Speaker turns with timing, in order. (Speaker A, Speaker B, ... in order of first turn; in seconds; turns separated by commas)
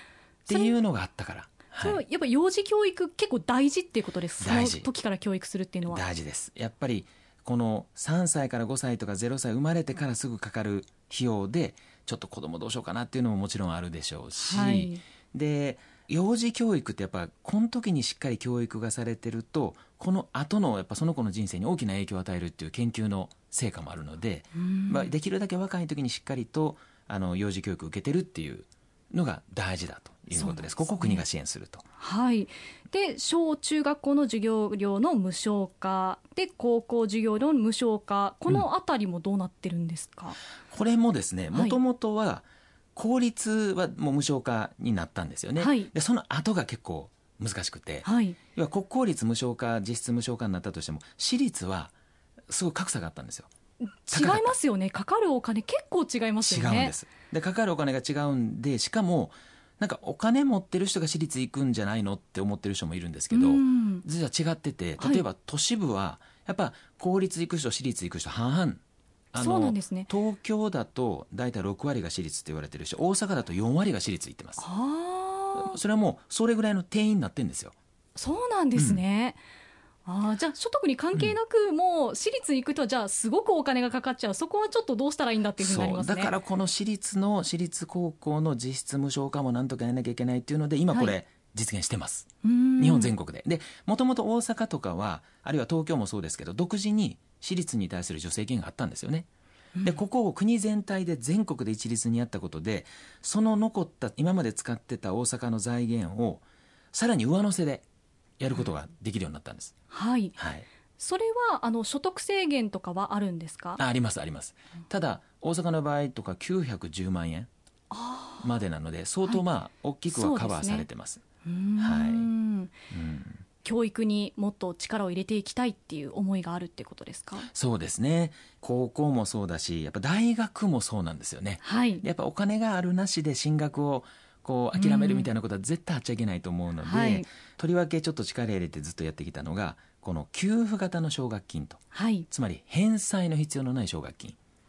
Speaker A: 0.5-0.7, Speaker B: 0.5-2.0, Speaker A: 1.8-6.0, Speaker B: 4.4-4.9, Speaker B: 5.8-31.8, Speaker A: 14.3-15.0, Speaker A: 24.5-25.1, Speaker A: 30.3-31.2, Speaker A: 32.0-40.4, Speaker B: 40.7-51.9, Speaker A: 45.6-45.9, Speaker A: 48.0-48.4, Speaker B: 52.5-53.5, Speaker A: 54.0-56.9, Speaker B: 54.1-54.5, Speaker B: 56.4-68.8, Speaker A: 63.3-64.0, Speaker B: 69.3-74.6, Speaker A: 69.4-70.1, Speaker A: 74.6-75.8, Speaker B: 75.5-77.7, Speaker A: 78.2-79.4, Speaker B: 78.7-79.0, Speaker A: 80.0-86.3, Speaker B: 85.6-99.3, Speaker A: 92.4-93.1, Speaker B: 99.8-107.8, Speaker B: 108.4-109.7, Speaker A: 109.9-110.3, Speaker B: 110.4-110.7, Speaker A: 111.0-113.8, Speaker B: 113.8-117.5, Speaker A: 117.9-118.5, Speaker B: 118.4-121.2, Speaker A: 120.1-120.9, Speaker A: 121.4-122.7, Speaker B: 121.8-122.3, Speaker B: 122.9-123.4, Speaker A: 123.6-127.5, Speaker B: 127.5-144.4, Speaker A: 131.6-132.0, Speaker A: 134.7-135.3, Speaker A: 136.8-137.2, Speaker A: 141.9-142.3